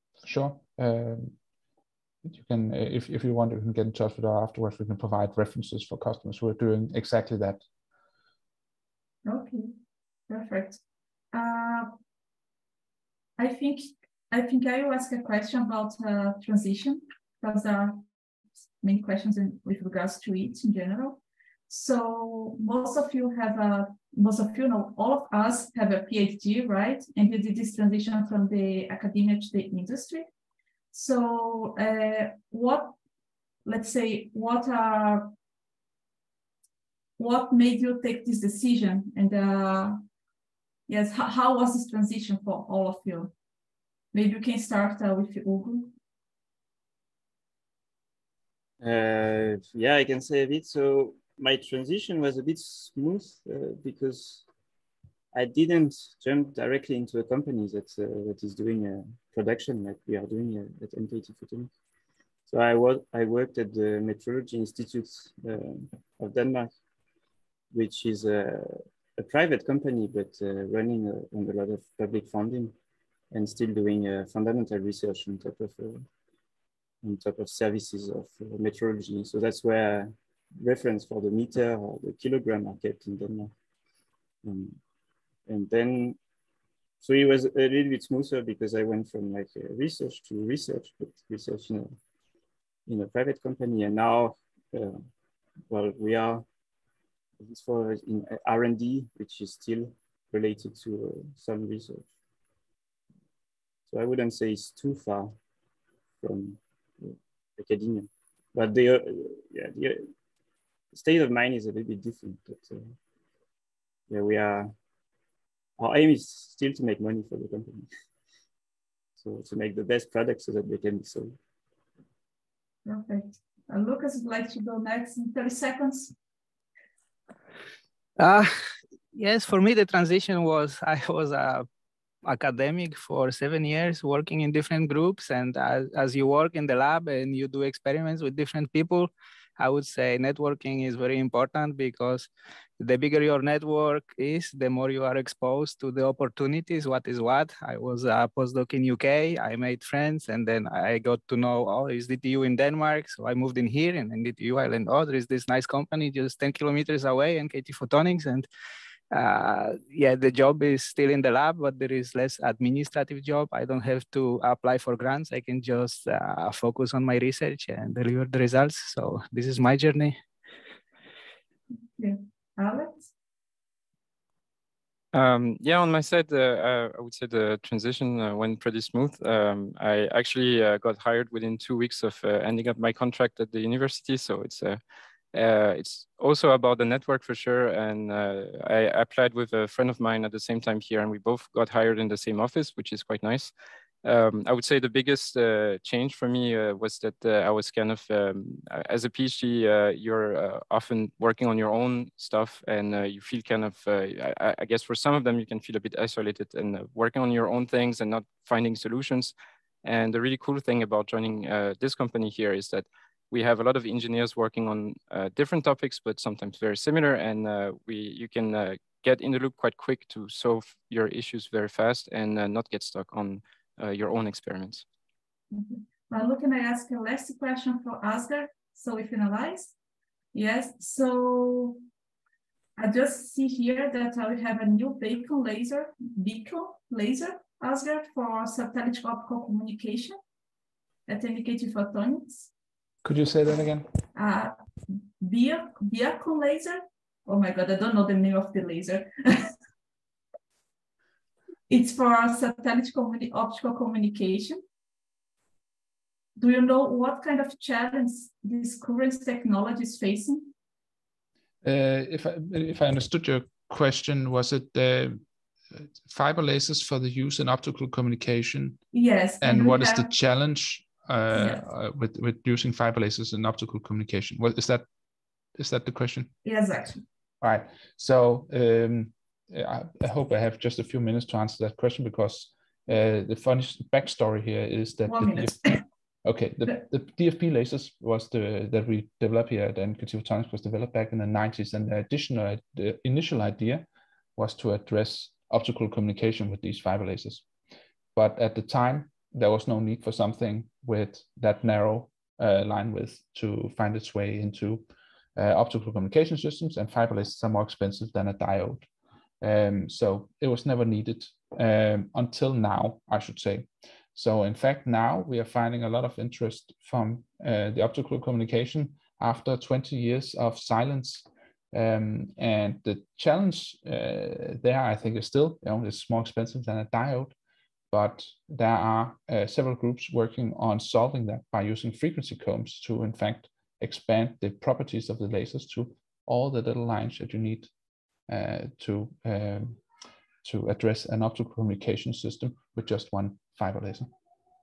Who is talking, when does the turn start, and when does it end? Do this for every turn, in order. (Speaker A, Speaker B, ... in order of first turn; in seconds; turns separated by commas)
Speaker A: 0.2-1.4, Speaker A: 2.2-7.6, Speaker B: 9.2-9.7, Speaker B: 10.3-10.8, Speaker B: 11.3-11.9, Speaker B: 13.4-18.0, Speaker B: 18.8-30.3, Speaker B: 30.9-33.0, Speaker B: 33.6-35.3, Speaker B: 37.2-40.0, Speaker B: 40.9-43.3, Speaker B: 44.1-45.9, Speaker C: 48.8-54.5, Speaker C: 55.3-61.7, Speaker C: 62.5-66.7, Speaker C: 67.7-72.8, Speaker C: 73.3-76.1, Speaker C: 77.0-83.5, Speaker C: 84.4-84.8, Speaker C: 85.5-86.2, Speaker C: 87.0-92.0, Speaker C: 92.9-95.0, Speaker C: 95.7-96.5, Speaker C: 97.4-102.1, Speaker C: 103.9-105.4, Speaker C: 106.2-110.0, Speaker C: 110.9-112.9, Speaker C: 114.1-114.7, Speaker C: 115.8-117.9, Speaker C: 119.2-121.4, Speaker B: 122.9-126.1, Speaker D: 128.2-128.5, Speaker D: 129.1-131.7, Speaker D: 132.2-158.5, Speaker D: 159.1-170.2, Speaker B: 171.8-173.1, Speaker E: 175.1-184.8, Speaker E: 185.3-193.5, Speaker E: 194.0-224.8, Speaker B: 225.5-229.7, Speaker B: 230.3-231.8, Speaker B: 232.8-240.2, Speaker B: 241.1-242.5, Speaker A: 243.0-243.9, Speaker B: 244.2-249.5, Speaker B: 251.7-254.6, Speaker B: 256.4-260.5, Speaker A: 261.6-265.2, Speaker A: 265.8-268.8, Speaker B: 268.9-270.1, Speaker A: 269.4-274.9, Speaker B: 271.3-271.6, Speaker A: 275.6-276.3, Speaker B: 276.4-277.0, Speaker A: 277.4-285.6, Speaker B: 285.1-285.8, Speaker A: 286.2-293.9, Speaker A: 294.4-297.4, Speaker A: 298.1-304.8, Speaker A: 305.4-308.9, Speaker A: 309.4-327.3, Speaker A: 327.9-337.7, Speaker A: 338.3-339.8, Speaker A: 340.4-344.1